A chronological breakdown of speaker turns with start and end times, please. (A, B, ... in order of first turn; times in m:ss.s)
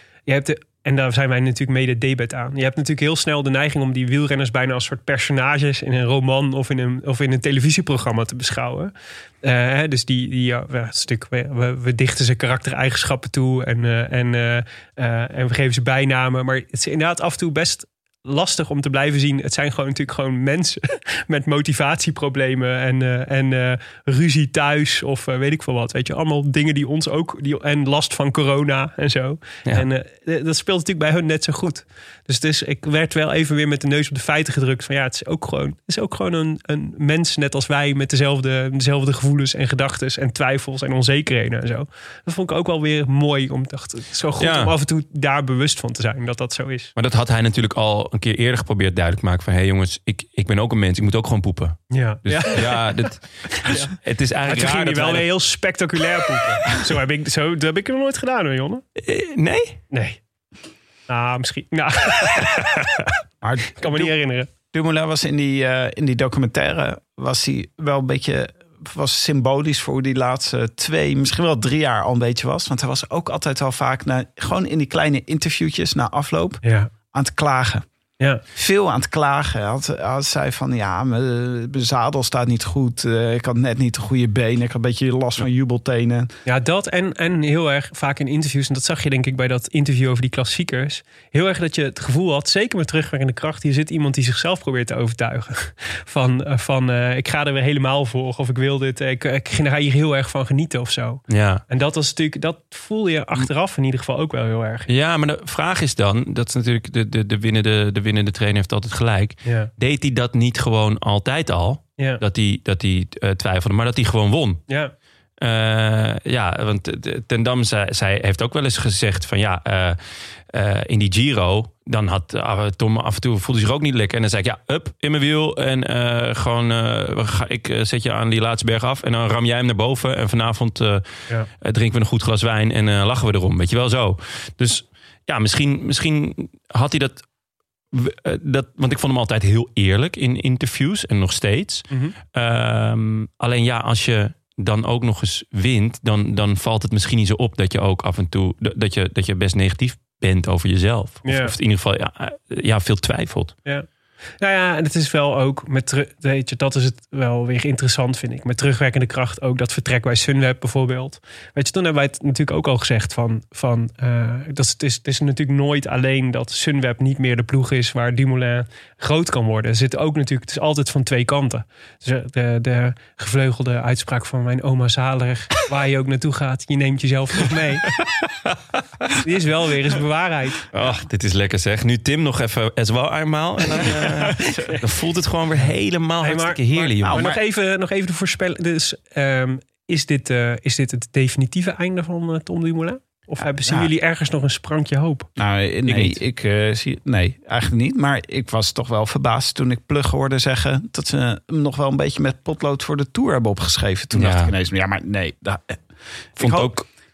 0:00.2-0:46.9 A
0:44.4-0:44.7 B
0:47.0-0:55.3 B
0:51.9-0:53.9 A
0:54.4-0:58.8 A
0:59.0-0:59.8 B
0:59.9-1:00.2 A
1:01.1-1:03.1 A
1:03.4-1:04.1 C
1:03.7-1:04.5 A
1:04.7-1:17.8 C
1:16.6-1:16.9 A
1:18.5-1:26.3 C
1:26.4-1:44.9 A
1:41.3-1:41.6 B
1:44.9-1:54.6 B
1:49.4-1:49.7 A
1:54.7-1:54.9 A
1:55.4-2:00.0 B
2:00.5-2:11.1 B
2:11.6-2:17.2 B
2:17.9-2:33.5 B
2:31.2-2:31.5 A
2:34.4-2:57.9 A
2:59.2-3:00.6 A
3:00.7-3:07.2 B
3:04.1-3:04.8 A
3:06.2-3:15.3 A
3:07.0-3:07.4 C
3:13.6-3:13.9 C
3:15.4-3:25.8 C
3:15.9-3:16.2 B
3:24.1-3:24.5 B
3:26.4-3:26.7 C
3:26.4-3:26.8 B